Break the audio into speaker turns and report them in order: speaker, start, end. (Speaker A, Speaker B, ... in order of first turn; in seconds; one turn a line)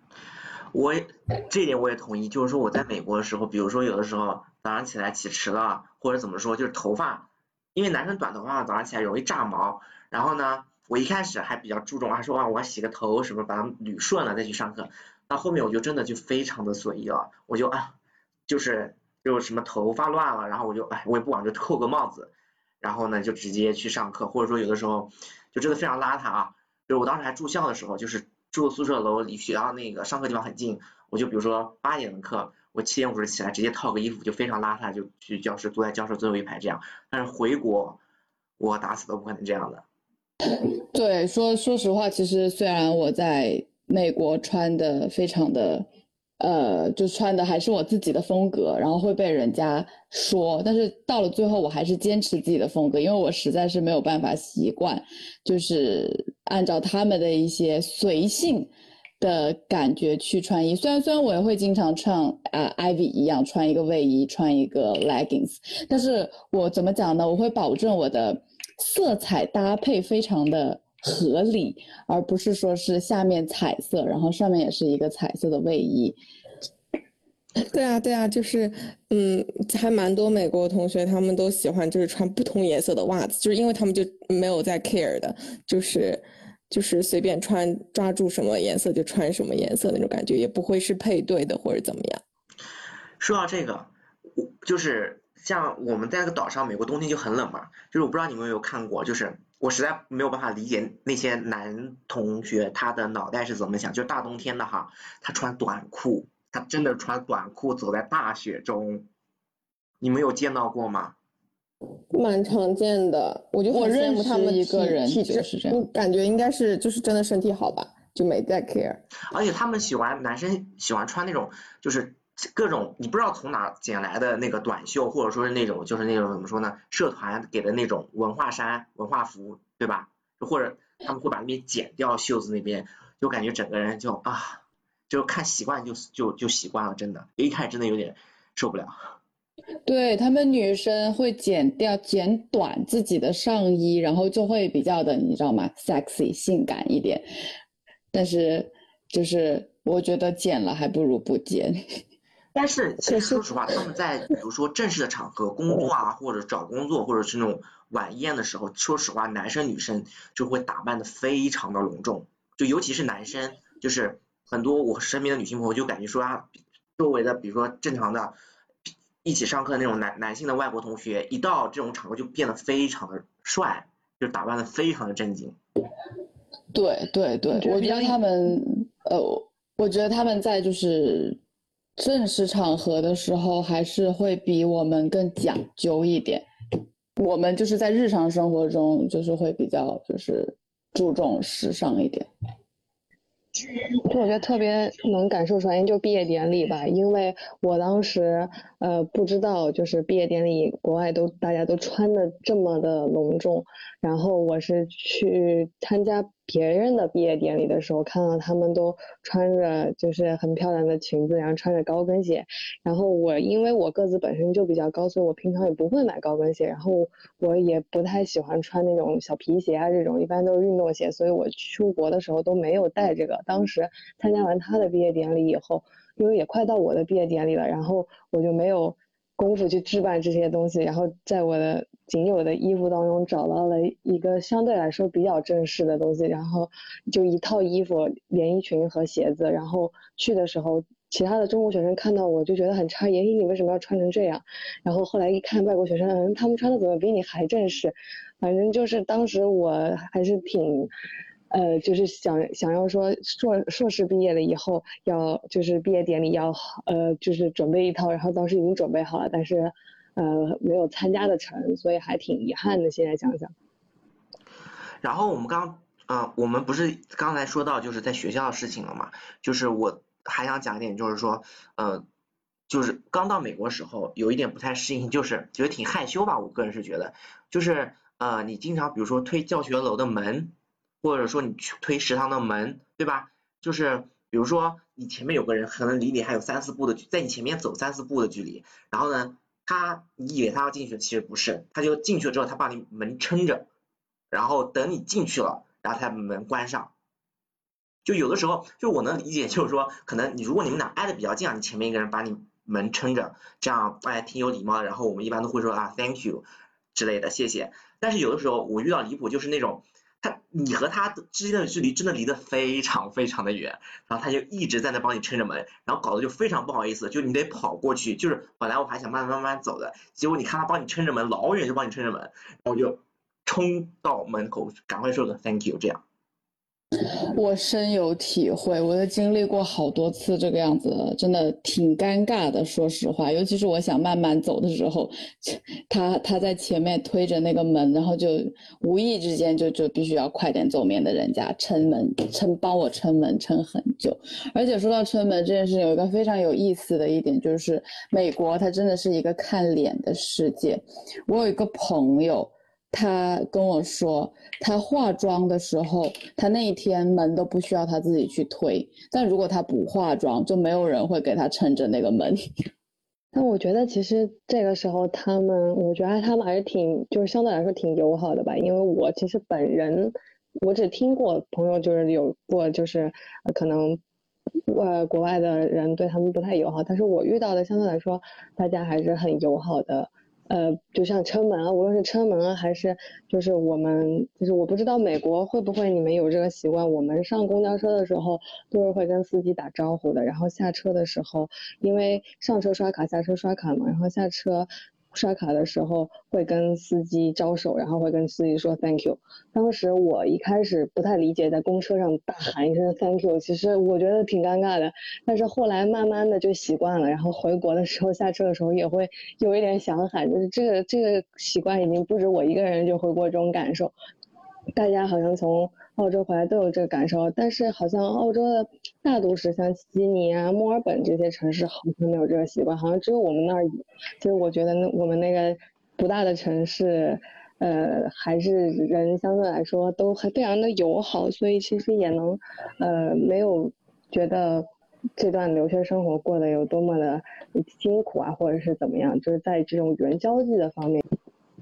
Speaker A: 0.7-17.9
Speaker A: 18.5-38.0
Speaker A: 38.6-39.8
Speaker B: 40.9-45.9
Speaker B: 46.4-76.2
Speaker C: 77.6-92.2
Speaker A: 93.2-109.0
Speaker A: 110.0-111.1
Speaker C: 112.1-119.0
Speaker B: 113.7-115.8
Speaker A: 119.3-139.0
Speaker B: 139.9-147.2
Speaker B: 148.1-151.7
Speaker A: 152.6-168.3
Speaker A: 169.2-175.6
Speaker B: 176.7-181.4
Speaker D: 177.6-178.2
Speaker B: 182.0-186.4
Speaker B: 187.2-192.3
Speaker D: 194.1-250.9
Speaker D: 251.5-263.5
Speaker A: 265.0-272.1
Speaker A: 272.7-293.7
Speaker A: 294.3-296.9
Speaker A: 298.1-326.0
Speaker B: 327.3-362.4
Speaker D: 363.3-374.0
Speaker D: 374.7-413.9
Speaker D: 414.8-423.7
Speaker D: 424.2-434.7
Speaker D: 435.2-441.0